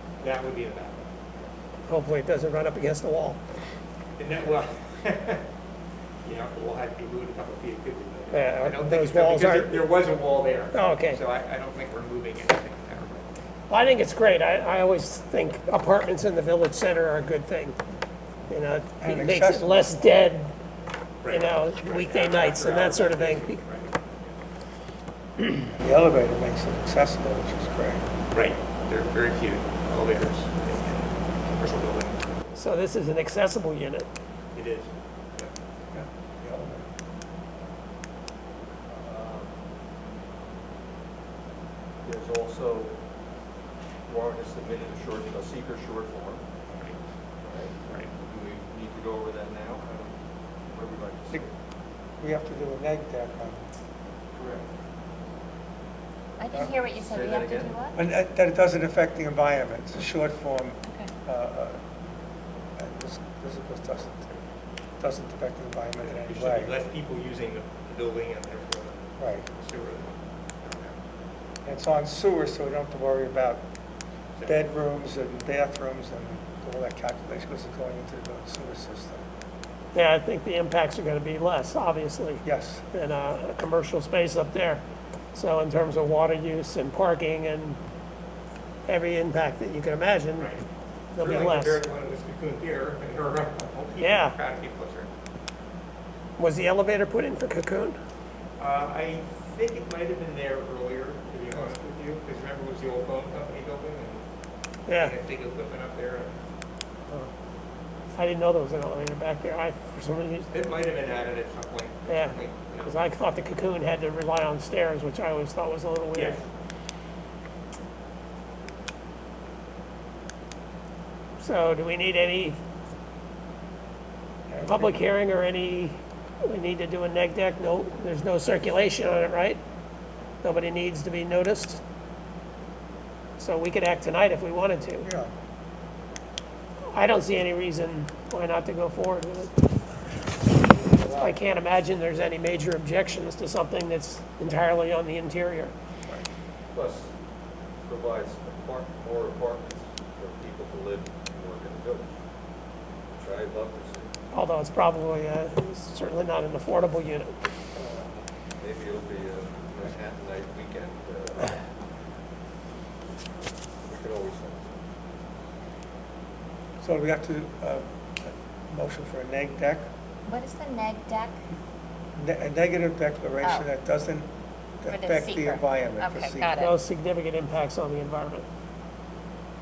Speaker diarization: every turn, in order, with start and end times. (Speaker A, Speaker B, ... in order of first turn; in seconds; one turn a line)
Speaker A: 0.2-1.1
Speaker B: 1.9-3.4
Speaker A: 4.2-5.4
Speaker A: 6.2-13.3
Speaker B: 8.3-9.8
Speaker B: 10.7-11.2
Speaker B: 13.7-17.8
Speaker B: 18.5-20.5
Speaker C: 19.0-19.9
Speaker A: 21.2-24.4
Speaker B: 21.3-23.6
Speaker C: 25.4-28.1
Speaker A: 28.3-32.4
Speaker B: 32.5-34.1
Speaker A: 34.5-35.5
Speaker C: 35.9-36.9
Speaker D: 38.9-39.6
Speaker D: 42.0-43.0
Speaker D: 44.1-46.5
Speaker A: 46.7-47.0
Speaker D: 47.4-50.1
Speaker A: 47.9-48.1
Speaker D: 50.7-51.5
Speaker C: 52.2-53.6
Speaker D: 54.4-54.6
Speaker E: 56.4-58.0
Speaker D: 56.9-57.7
Speaker C: 58.0-61.8
Speaker C: 62.8-64.3
Speaker C: 65.0-66.7
Speaker A: 66.0-71.0
Speaker C: 69.2-69.5
Speaker C: 71.6-73.6
Speaker C: 74.4-79.2
Speaker B: 79.9-84.8
Speaker C: 82.4-82.8
Speaker B: 85.3-87.8
Speaker B: 88.9-90.5
Speaker A: 90.4-90.6
Speaker B: 91.1-91.8
Speaker A: 91.2-95.1
Speaker B: 94.0-94.4
Speaker B: 96.4-98.0
Speaker A: 98.6-104.2
Speaker B: 104.9-105.2
Speaker A: 104.9-106.4
Speaker B: 108.2-110.5
Speaker A: 110.5-113.0
Speaker B: 112.1-116.4
Speaker A: 116.1-116.4
Speaker B: 121.4-122.6
Speaker C: 124.5-125.0
Speaker B: 124.6-129.6
Speaker B: 130.4-131.8
Speaker B: 133.4-135.1
Speaker C: 135.0-135.3
Speaker B: 136.9-139.5
Speaker B: 141.1-145.7
Speaker D: 146.7-147.1
Speaker D: 147.8-152.2
Speaker D: 153.2-154.1
Speaker B: 154.3-157.3
Speaker D: 158.6-161.6
Speaker D: 163.8-164.7
Speaker C: 166.8-169.9
Speaker E: 170.3-171.4
Speaker C: 172.2-174.3
Speaker E: 173.4-173.7
Speaker C: 174.8-176.5
Speaker E: 174.8-176.8
Speaker B: 176.6-178.5